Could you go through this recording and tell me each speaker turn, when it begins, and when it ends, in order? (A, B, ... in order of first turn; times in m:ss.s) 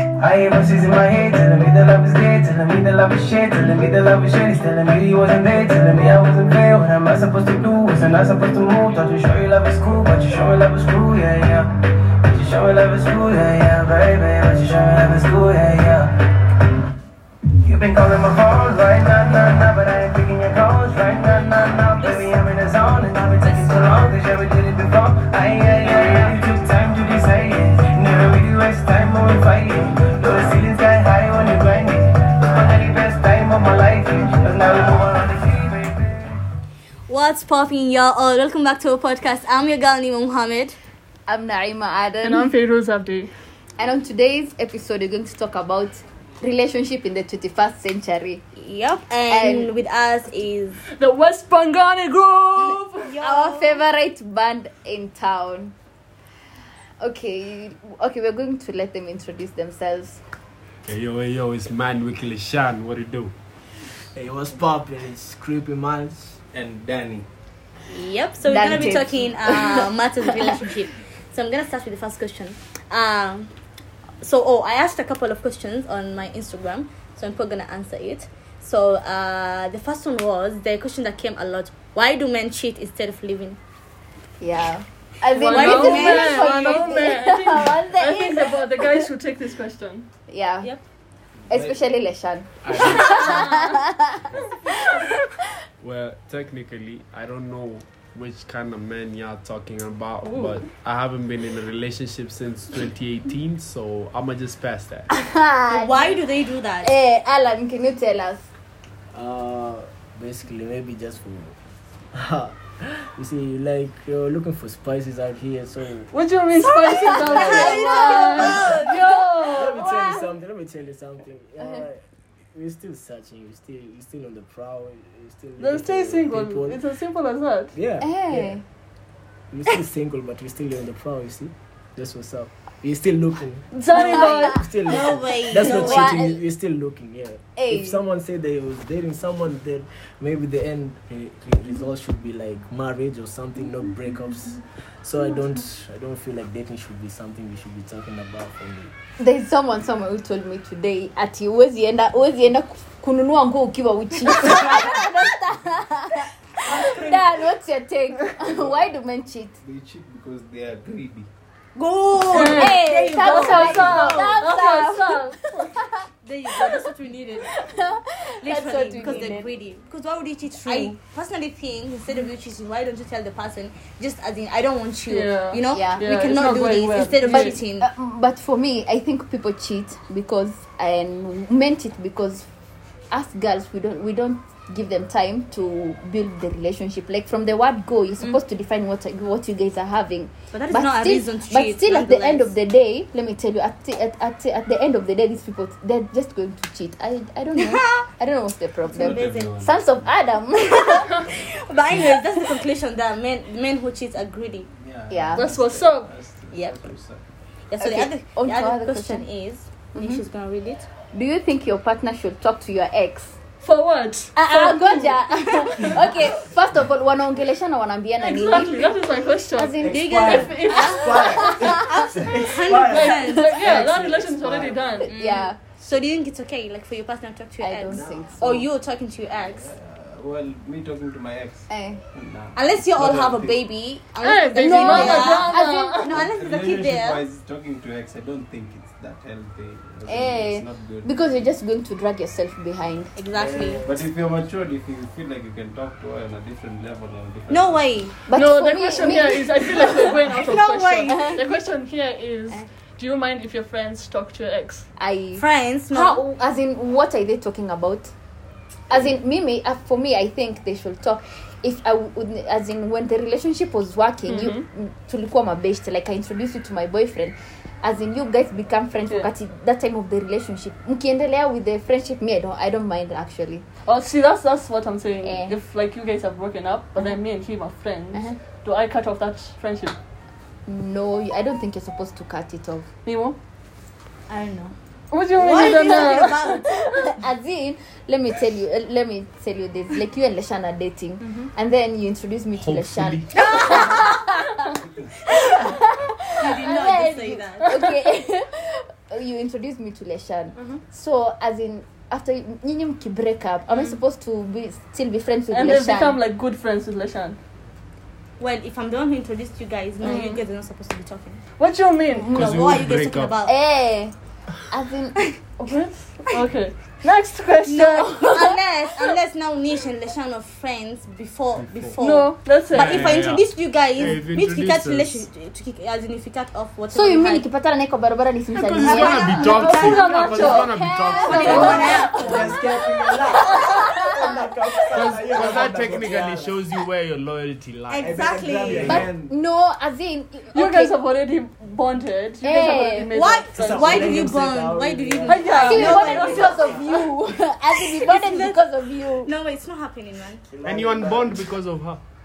0:00.2-0:16.1 A
0:17.6-0:36.2 A
0:22.0-0:22.3 B
0:23.4-0:23.8 B
0:37.1-0:40.8 B
0:41.3-0:42.5 C
0:42.2-0:43.3 D
0:43.8-0:48.4 C
0:48.6-0:50.8 B
0:49.3-0:49.7 C
0:50.9-0:53.2 D
0:53.0-0:53.8 B
0:53.2-0:55.8 C
0:57.0-1:00.2 C
1:00.9-1:03.3 E
1:04.1-1:06.4 F
1:06.5-1:07.3 G
1:07.9-1:13.5 B
1:08.4-1:10.8 C
1:14.2-1:23.6 B
1:24.4-1:29.1 C
1:25.4-1:30.1 D
1:25.4-1:27.1 B
1:30.3-1:30.7 C
1:31.5-1:31.8 G
1:31.5-1:35.4 C
1:32.6-1:33.5 E
1:32.8-1:33.8 D
1:35.8-1:45.1 E
1:40.2-1:40.6 D
1:45.1-1:46.2 C
1:45.7-1:46.9 B
1:46.8-1:48.5 C
1:49.1-1:51.6 F
1:52.1-1:56.1 F
1:56.1-2:00.1 D
1:57.0-1:58.9 B
1:57.3-1:57.8 F
1:59.5-2:06.8 F
2:05.6-2:07.7 D
2:07.7-2:08.6 F
2:08.0-2:08.6 C
2:09.5-2:28.9 F
2:13.7-2:14.6 D
2:13.9-2:14.6 C
2:13.9-2:16.2 B
2:15.6-2:16.4 C
2:17.6-2:18.0 C
2:29.2-2:39.5 C
2:38.4-2:38.8 G
2:39.6-2:41.3 G
2:41.8-2:44.4 B
2:42.3-2:49.5 C
2:42.3-2:45.8 D
2:46.2-2:47.5 B
2:48.4-2:57.9 B
2:50.5-2:50.9 C
2:55.1-2:57.6 D
2:55.7-2:56.5 C
2:57.2-3:02.5 C
3:03.1-3:21.2 C
3:10.5-3:12.5 B
3:17.6-3:18.1 B
3:18.9-3:19.6 B
3:19.0-3:19.9 G
3:20.6-3:24.7 B
3:24.7-3:27.2 G
3:25.1-3:25.4 C
3:25.4-3:26.1 D
3:26.5-3:26.8 B
3:27.7-3:30.9 B
3:27.8-3:29.3 C
3:29.9-3:30.2 C
3:31.1-3:33.4 C
3:33.6-3:35.9 D
3:34.4-3:39.0 C
3:38.2-3:41.5 D
3:39.5-3:42.1 C
3:39.8-3:45.1 F
3:39.9-3:43.8 B
3:42.9-3:45.1 D
3:45.0-3:45.6 C
3:45.1-3:49.7 B
3:47.6-3:48.6 C
3:47.9-3:48.5 F
3:49.6-3:53.6 G
3:51.7-3:52.0 C
3:52.5-3:57.2 B
3:54.2-3:56.1 D
3:54.6-3:56.0 C
3:56.1-4:01.1 G
4:00.1-4:03.1 C
4:03.2-4:03.8 B
4:03.3-4:04.0 F
4:03.8-4:07.9 G
4:07.5-4:08.1 B
4:08.3-4:09.7 C
4:08.3-4:14.9 D
4:09.8-4:11.4 B
4:15.0-4:18.1 C
4:15.4-4:16.2 B
4:18.9-4:33.6 C
4:24.3-4:24.6 D
4:33.8-4:40.0 D
4:35.2-4:35.6 C
4:38.1-4:38.4 C
4:40.6-4:42.9 C
4:43.0-4:43.4 D
4:44.3-4:44.7 B
4:45.1-4:46.6 D
4:45.3-4:47.1 B
4:46.7-4:54.7 C
4:51.2-4:51.5 B
4:52.6-4:53.3 E
4:53.3-4:54.2 B
4:55.2-5:06.2 C
4:56.4-4:57.7 B
5:00.6-5:00.8 B
5:05.5-5:07.4 D
5:08.4-5:11.4 B
5:10.0-5:10.4 C
5:11.6-5:12.3 D
5:12.1-5:12.8 C
5:12.3-5:13.4 E
5:12.3-5:13.5 B
5:13.4-5:14.1 C
5:14.7-5:15.8 C
5:15.6-5:18.2 D
5:17.7-5:27.4 B
5:18.1-5:18.6 C
5:21.6-5:21.9 E
5:22.0-5:23.1 D
5:22.7-5:25.2 E
5:26.9-5:34.8 C
5:28.5-5:32.0 E
5:28.8-5:32.4 D
5:28.8-5:30.0 B
5:31.2-5:32.6 B
5:31.5-5:36.6 F
5:33.5-5:33.8 D
5:34.9-5:39.1 E
5:37.9-5:39.0 B
5:38.0-5:39.3 F
5:38.8-5:41.0 C
5:40.5-5:44.1 D
5:42.4-5:43.2 C
5:43.1-5:47.0 B
5:43.5-5:46.9 F
5:45.2-5:46.5 D
5:45.6-5:49.3 C
5:47.8-5:50.4 B
5:50.5-5:51.4 F
5:50.6-5:52.0 E